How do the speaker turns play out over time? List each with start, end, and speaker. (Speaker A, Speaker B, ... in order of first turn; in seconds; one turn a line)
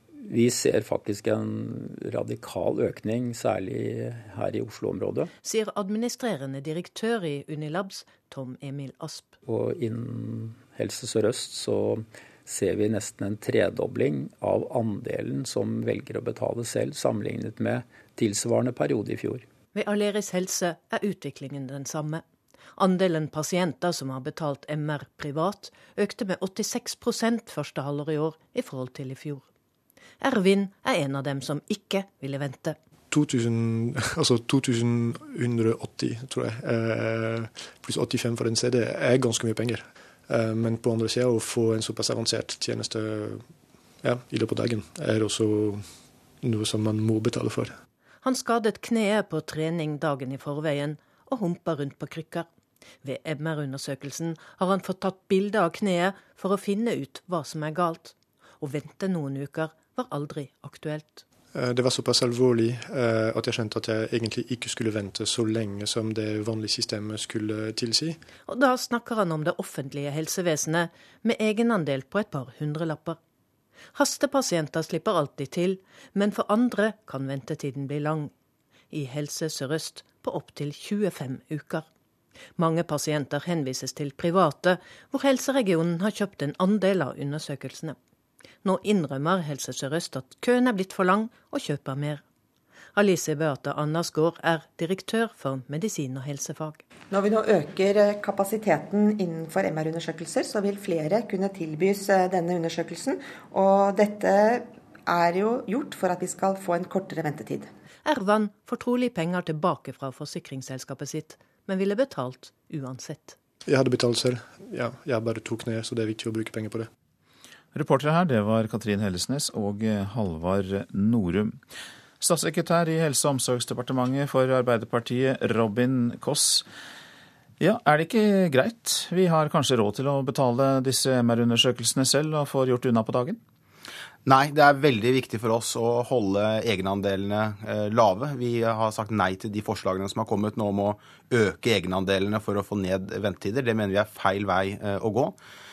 Speaker A: 0.3-5.3
Speaker B: 5.4-9.3
Speaker A: 9.5-19.4
Speaker B: 19.7-22.2
Speaker B: 22.8-29.4
Speaker B: 30.2-32.8
Speaker C: 33.2-37.4
Speaker C: 37.9-39.8
Speaker C: 40.3-43.3
Speaker C: 44.0-45.8
Speaker C: 46.4-47.7
Speaker B: 48.2-52.5
Speaker B: 53.0-61.2
Speaker C: 61.6-68.0
Speaker B: 68.4-73.2
Speaker B: 73.9-78.3
Speaker B: 78.9-81.9
Speaker B: 82.6-88.0
Speaker B: 88.6-92.2
Speaker B: 93.0-96.8
Speaker D: 97.1-107.7
Speaker B: 108.0-113.4
Speaker C: 113.7-116.9
Speaker E: 117.7-121.6
Speaker E: 122.2-126.7
Speaker E: 127.6-133.4
Speaker F: 134.3-145.3